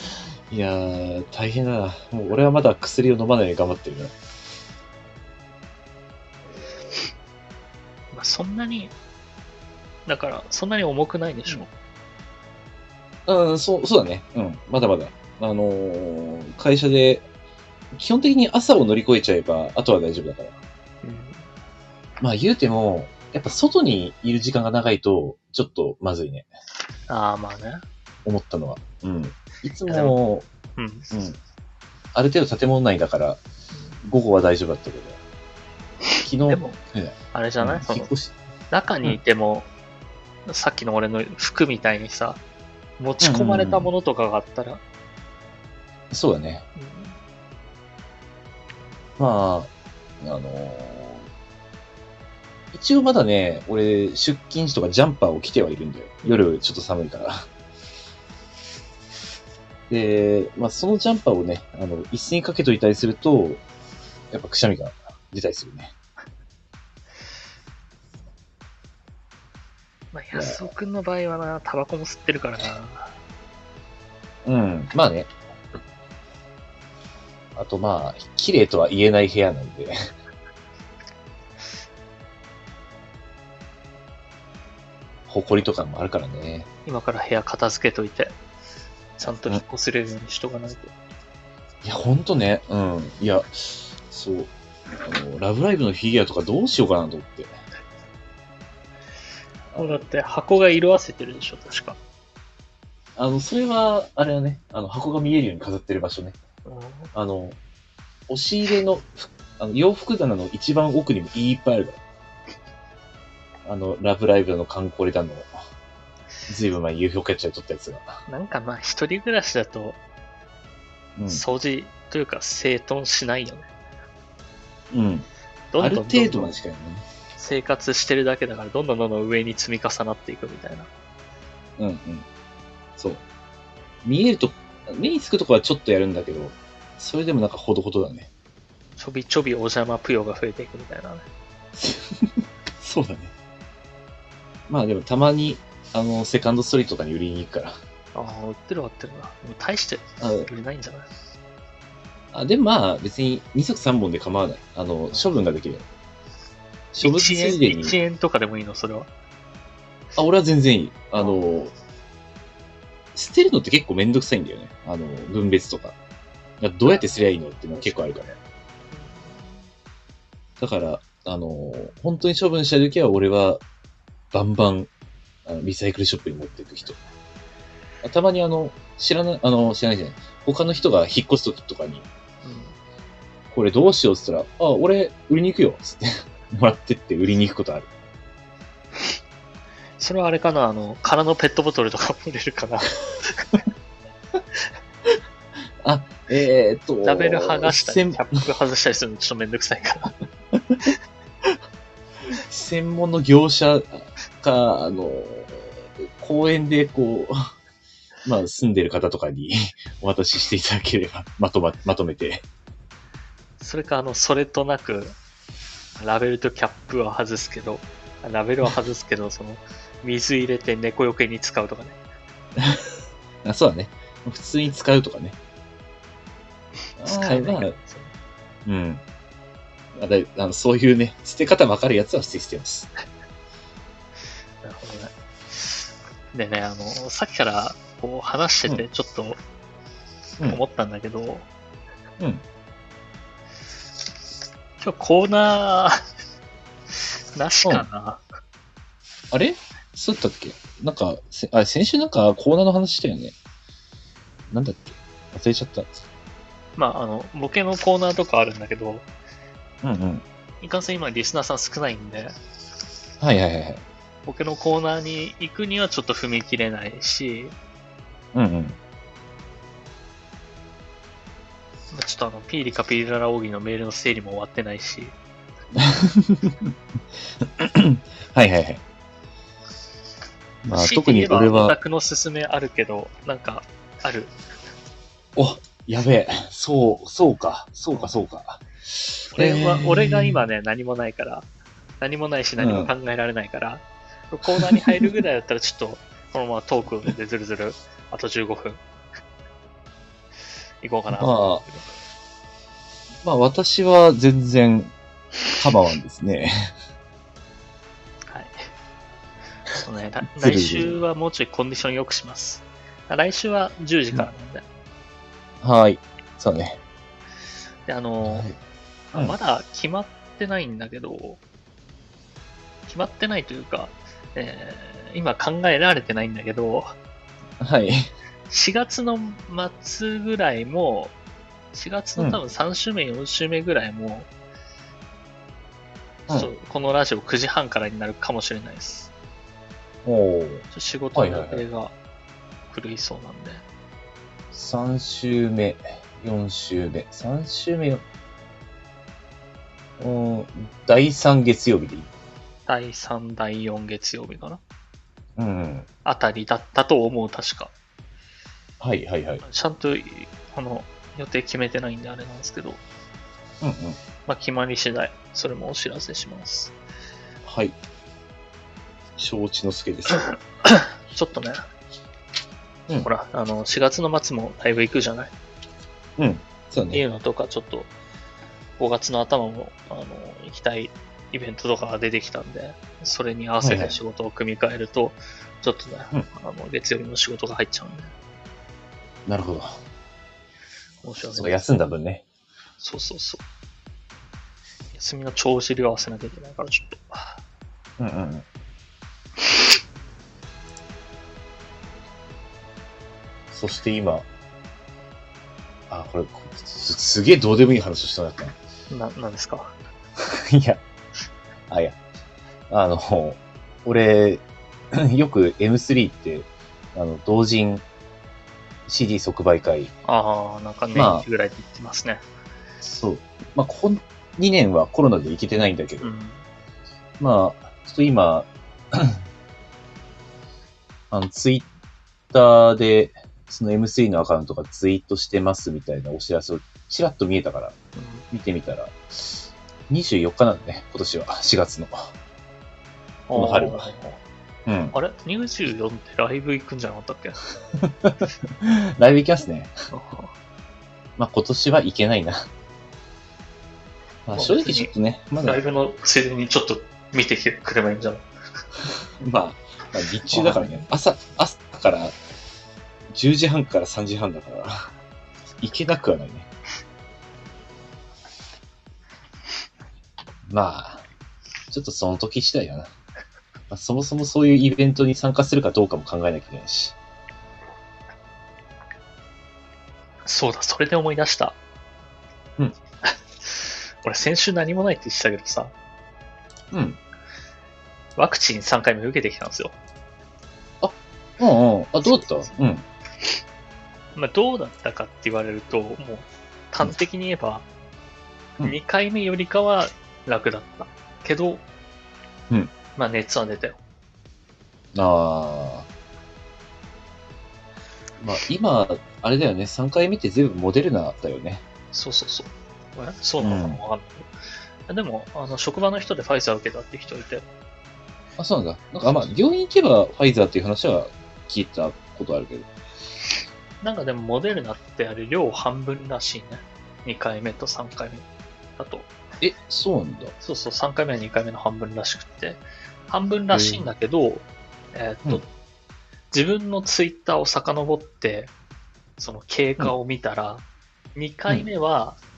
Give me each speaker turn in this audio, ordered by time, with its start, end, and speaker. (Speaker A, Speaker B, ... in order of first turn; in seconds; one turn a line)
Speaker A: 0.5-4.1
Speaker B: 8.1-8.9
Speaker B: 10.1-11.7
Speaker A: 13.3-17.2
Speaker A: 17.9-20.6
Speaker B: 21.0-21.4
Speaker A: 22.2-26.5
Speaker B: 27.1-27.8
Speaker A: 28.2-30.5
Speaker B: 29.9-30.1
Speaker B: 30.8-31.1
Speaker A: 31.1-31.4
Speaker A: 32.1-33.4
Speaker A: 34.0-35.2
Speaker B: 36.1-36.8
Speaker A: 36.2-38.3
Speaker B: 37.3-38.1
Speaker B: 38.7-39.7
Speaker B: 40.5-42.4
Speaker B: 43.0-44.8
Speaker A: 43.2-43.9
Speaker A: 46.1-46.6
Speaker B: 46.8-47.1
Speaker A: 49.2-51.2
Speaker A: 52.7-57.5
Speaker A: 59.9-63.6
Speaker A: 64.3-65.9
Speaker B: 70.1-73.1
Speaker A: 70.3-70.7
Speaker A: 74.4-75.3
Speaker A: 77.5-80.0
Speaker A: 85.3-86.7
Speaker B: 86.8-88.3
Speaker B: 89.2-90.9
Speaker A: 91.8-97.5
Speaker A: 99.7-100.0
Speaker B: 99.8-102.0
Speaker A: 103.2-106.4
Speaker B: 106.6-107.1
Speaker A: 107.1-107.6
Speaker A: 108.3-112.0
Speaker A: 113.6-115.5
Speaker A: 116.5-118.2
Speaker B: 118.3-120.0
Speaker A: 121.2-121.4
Speaker B: 121.3-123.7
Speaker A: 124.9-125.3
Speaker B: 125.7-126.5
Speaker A: 125.8-127.0
Speaker B: 127.3-130.9
Speaker A: 131.8-132.2
Speaker A: 133.0-133.2
Speaker A: 134.0-138.3
Speaker B: 139.0-141.2
Speaker A: 141.8-143.3
Speaker A: 144.7-147.8
Speaker B: 148.1-151.1
Speaker A: 150.2-150.5
Speaker A: 152.3-155.8
Speaker A: 156.9-157.9
Speaker B: 157.0-159.1
Speaker A: 160.2-161.7
Speaker A: 163.1-165.9
Speaker A: 166.6-168.3
Speaker B: 168.9-169.3
Speaker A: 170.6-173.6
Speaker A: 174.3-174.9
Speaker A: 175.4-177.0
Speaker A: 178.0-182.1
Speaker B: 182.4-182.7
Speaker A: 183.5-187.9
Speaker B: 190.0-193.4
Speaker A: 195.8-198.2
Speaker B: 197.0-200.1
Speaker A: 200.6-200.8
Speaker A: 202.3-207.3
Speaker A: 208.2-212.4
Speaker B: 213.6-215.1
Speaker B: 216.0-222.0
Speaker A: 222.6-222.8
Speaker A: 223.4-225.3
Speaker A: 227.0-227.8
Speaker B: 227.0-228.1
Speaker A: 228.7-229.0
Speaker A: 229.9-232.9
Speaker B: 234.6-235.1
Speaker B: 236.3-239.4
Speaker B: 240.5-241.5
Speaker B: 244.8-246.0
Speaker B: 246.9-248.2
Speaker A: 249.3-253.3
Speaker A: 254.5-255.9
Speaker B: 256.8-259.1
Speaker A: 259.8-260.2
Speaker B: 260.6-262.3
Speaker A: 263.2-263.8
Speaker B: 264.2-267.5
Speaker A: 268.3-268.8
Speaker B: 271.9-275.1
Speaker A: 275.8-276.7
Speaker A: 277.4-278.8
Speaker A: 280.6-281.8
Speaker B: 280.7-284.3
Speaker A: 285.4-290.4
Speaker B: 289.3-291.5
Speaker B: 292.0-298.8
Speaker A: 292.6-292.9
Speaker A: 294.5-295.1
Speaker B: 300.8-301.9
Speaker A: 301.1-301.6
Speaker A: 303.2-304.9
Speaker A: 305.6-306.7
Speaker B: 308.3-308.6
Speaker B: 309.8-314.6
Speaker A: 310.4-311.0
Speaker A: 315.6-316.8
Speaker B: 317.9-318.5
Speaker A: 318.2-318.6
Speaker B: 319.1-321.4
Speaker B: 322.9-326.9
Speaker A: 327.6-328.1
Speaker B: 328.5-331.1
Speaker B: 331.7-334.3
Speaker B: 336.3-339.1
Speaker A: 340.0-341.6
Speaker B: 340.7-341.9
Speaker B: 342.7-343.6
Speaker A: 344.5-348.0
Speaker A: 350.0-352.1
Speaker B: 352.7-354.6
Speaker A: 355.4-355.9
Speaker B: 356.0-357.7
Speaker A: 358.8-359.4
Speaker B: 359.4-362.8
Speaker A: 363.6-364.0
Speaker B: 364.3-366.7
Speaker A: 367.4-367.8
Speaker A: 369.2-370.3
Speaker B: 370.2-371.6
Speaker B: 373.0-375.3
Speaker A: 376.2-377.0
Speaker B: 376.9-377.9
Speaker B: 378.8-388.1
Speaker A: 383.6-384.0
Speaker A: 389.3-389.8
Speaker B: 391.0-391.6
Speaker A: 391.4-392.2
Speaker B: 392.8-393.4
Speaker B: 394.9-397.4
Speaker A: 398.0-398.4
Speaker A: 403.5-404.2
Speaker A: 405.9-408.5
Speaker B: 408.9-409.7
Speaker A: 410.2-410.8
Speaker A: 411.7-412.0
Speaker A: 412.7-414.4
Speaker A: 414.9-417.8
Speaker A: 418.9-419.9
Speaker B: 420.0-422.2
Speaker A: 420.9-421.2
Speaker A: 422.8-426.1
Speaker B: 426.0-426.4
Speaker A: 427.2-429.2
Speaker A: 431.1-431.7
Speaker A: 432.3-437.8
Speaker B: 437.9-438.2
Speaker A: 438.3-442.1
Speaker B: 443.3-444.2
Speaker A: 443.3-443.9
Speaker A: 444.6-444.9
Speaker B: 444.9-447.4
Speaker A: 447.8-449.7
Speaker B: 449.9-450.3
Speaker A: 451.2-452.5
Speaker A: 454.2-455.6
Speaker B: 454.3-454.9
Speaker B: 455.4-458.2
Speaker A: 459.2-462.1
Speaker B: 460.3-460.8
Speaker A: 463.1-464.9
Speaker A: 465.6-466.5
Speaker A: 470.5-471.0
Speaker A: 471.7-472.9
Speaker A: 473.7-476.9
Speaker B: 480.2-481.6
Speaker B: 483.0-485.7
Speaker A: 486.7-487.0
Speaker B: 488.2-489.8
Speaker A: 490.8-492.8
Speaker B: 492.0-492.5
Speaker B: 494.1-497.6
Speaker B: 498.6-501.6
Speaker B: 502.9-503.8
Speaker A: 504.9-505.9
Speaker A: 508.2-511.6
Speaker B: 511.9-514.3
Speaker A: 513.4-513.8
Speaker B: 514.9-517.5
Speaker A: 518.4-522.7
Speaker B: 523.8-528.2
Speaker B: 528.8-529.1
Speaker A: 529.4-530.3
Speaker B: 530.4-535.5
Speaker A: 533.5-533.9
Speaker B: 536.3-538.5
Speaker B: 539.2-542.2